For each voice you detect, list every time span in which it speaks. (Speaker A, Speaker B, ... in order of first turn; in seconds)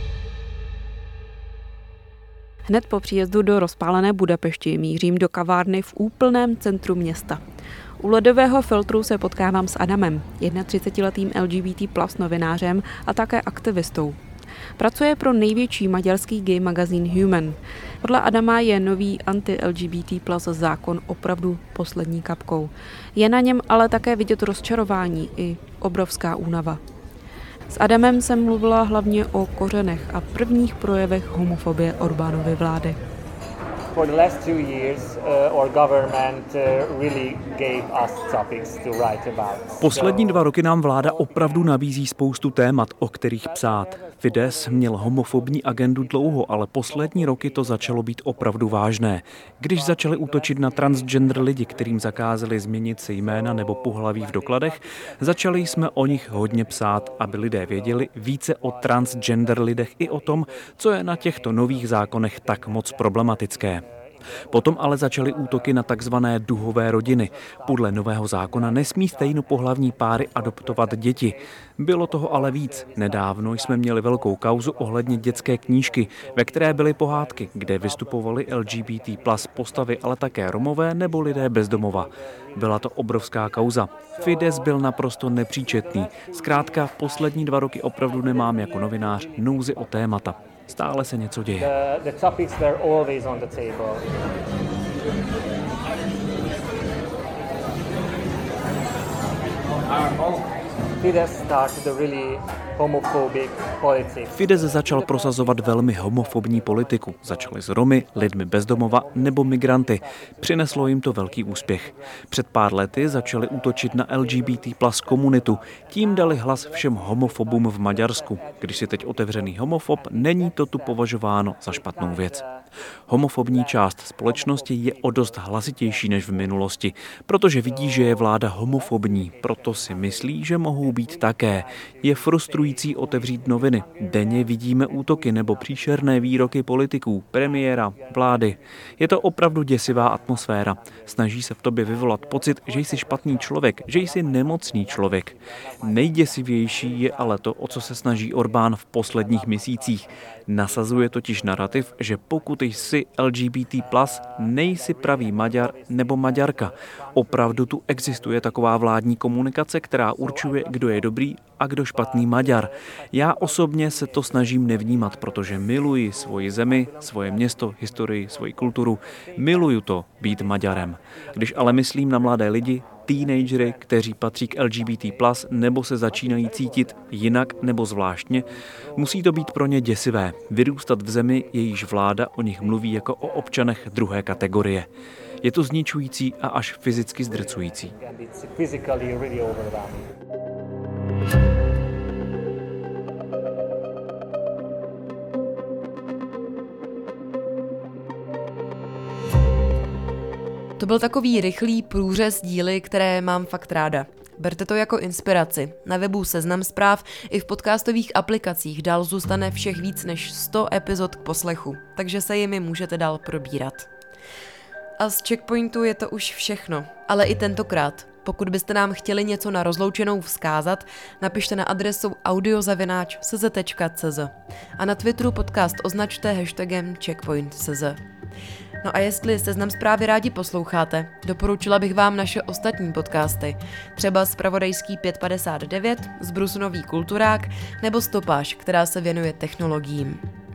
Speaker A: 2.7-7.4, 8.0-14.2, 14.8-26.8, 27.7-33.0
Speaker B: 33.9-40.4, 72.3-73.2, 75.4-75.9, 91.6-94.1, 101.0-104.4, 118.9-119.2, 121.7-122.3, 124.3-124.7, 131.4-131.9, 132.5-133.7, 188.0-190.1
Speaker C: 39.8-63.9, 64.5-91.7, 104.3-122.4, 123.1-184.9, 185.4-187.9
Speaker D: 200.8-213.9, 215.0-228.0, 228.8-240.2